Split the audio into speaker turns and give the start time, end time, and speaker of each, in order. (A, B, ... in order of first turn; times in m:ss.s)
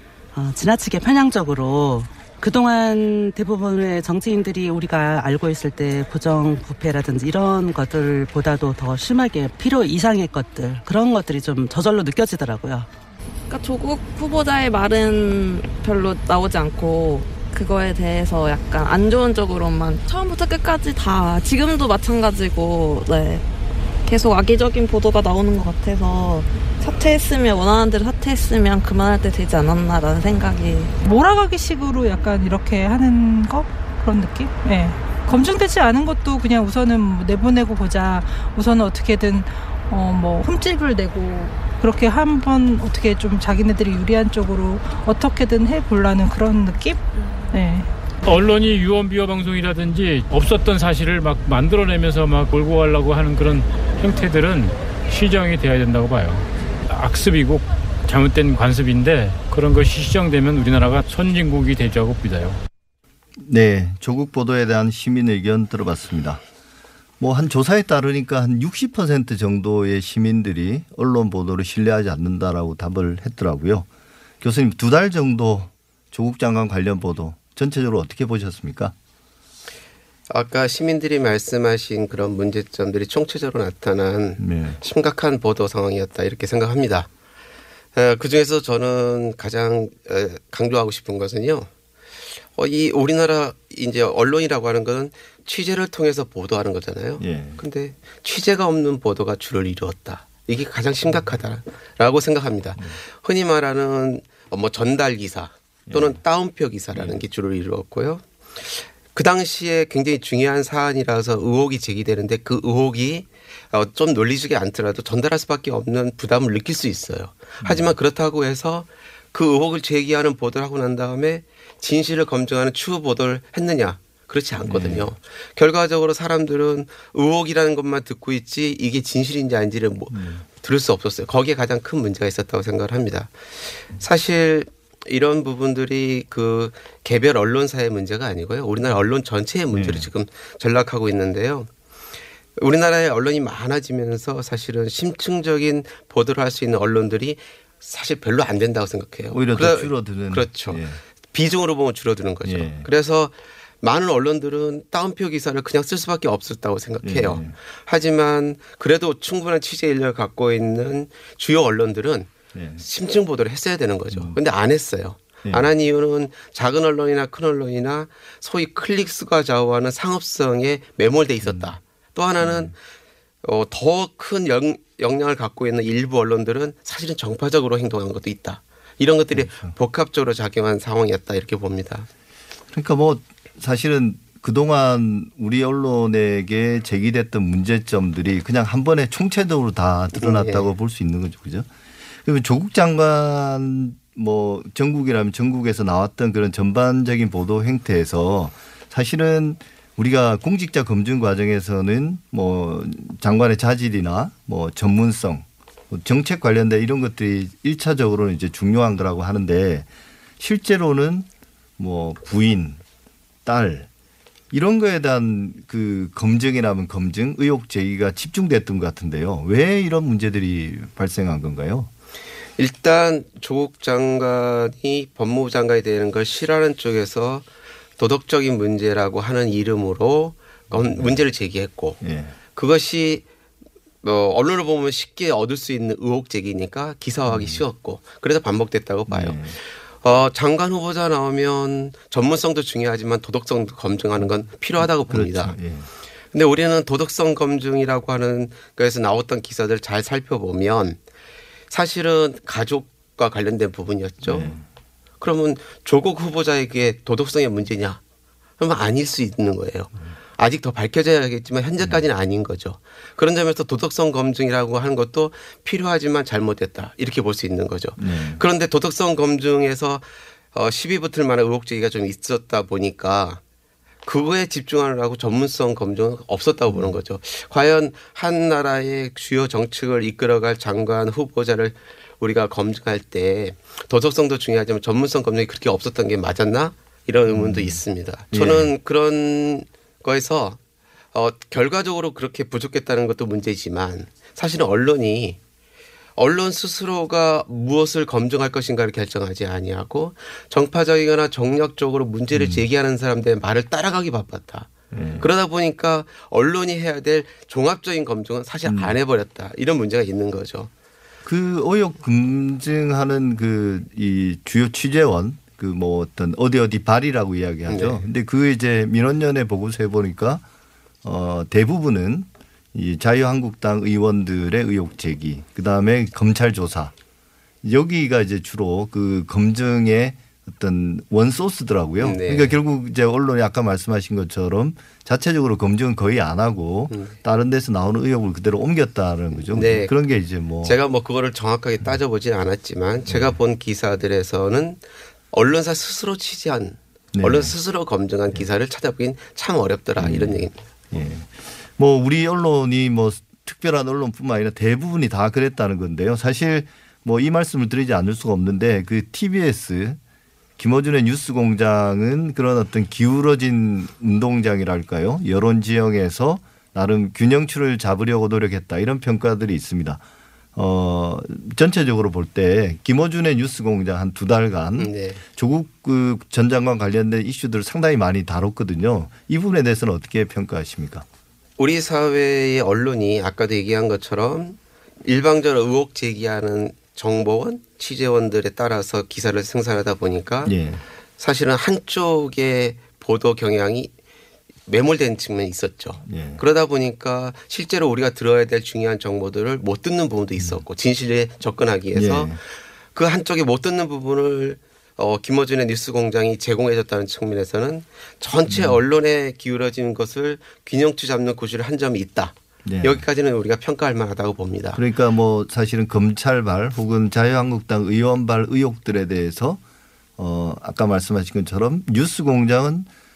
0:00.3-0:12.9 A
0:13.5-0:23.4 B
0:24.1-0:31.0 B
0:31.0-0:47.9 C
0:48.2-1:02.6 D
1:03.4-1:06.4 E
1:07.2-1:13.9 E
1:14.4-1:18.9 E
1:20.3-1:27.1 F
1:24.4-1:24.8 E
1:28.0-1:31.7 F
1:32.6-2:21.7 F
1:37.2-1:37.6 E
1:45.9-1:46.2 E
1:46.9-1:47.2 E
1:57.6-1:57.9 E
2:04.6-2:05.1 E
2:10.1-2:10.4 E
2:19.7-2:20.1 E
2:22.6-2:52.8 F
2:29.3-2:31.0 E
2:32.4-2:32.9 E
2:37.0-2:37.6 E
2:42.6-2:42.8 E
2:45.4-2:45.7 E
2:51.4-2:51.7 E
2:52.4-2:52.7 E
2:53.4-3:02.1 F
2:59.3-2:59.7 E
3:02.7-3:11.7 E
3:10.2-3:10.7 F
3:12.2-3:29.9 E
3:30.4-3:31.3 E
3:31.8-3:32.8 E
3:33.4-3:33.9 E
3:34.5-3:41.9 E
3:42.6-3:47.5 F
3:48.0-3:52.0 F
3:50.7-3:51.2 E
3:52.0-3:52.4 E
3:52.5-3:53.2 F
3:54.0-4:05.6 F
3:57.3-3:57.6 E
3:59.1-3:59.6 E
4:04.8-4:05.9 E
4:06.3-4:11.0 F
4:11.7-4:14.5 F
4:14.2-4:14.6 E
4:15.2-4:18.0 F
4:18.6-4:33.4 F
4:28.0-4:28.4 E
4:34.1-4:50.6 F
4:47.3-4:48.7 E
4:51.1-4:55.4 F
4:56.2-5:10.7 F
5:02.3-5:02.6 E
5:04.9-5:05.3 E
5:08.7-5:09.0 E
5:11.2-5:20.4 E
5:17.7-5:18.0 F
5:21.0-5:26.9 E
5:27.6-5:40.8 E
5:32.0-5:32.6 F
5:36.9-5:37.2 F
5:39.5-5:39.9 F
5:40.6-5:50.6 F
5:43.1-5:43.4 E
5:47.1-5:47.5 E
5:50.0-6:00.0 E
6:00.6-6:10.0 E
6:10.6-6:21.1 E
6:14.8-6:15.2 F
6:21.6-6:30.6 F
6:30.4-6:30.8 E
6:31.2-6:33.9 F
6:34.7-6:42.4 F
6:36.0-6:36.4 E
6:41.9-6:42.4 E
6:42.9-6:54.8 F
6:48.5-6:48.8 E
6:52.6-6:53.0 E
6:54.7-6:59.6 E
7:00.2-7:02.9 E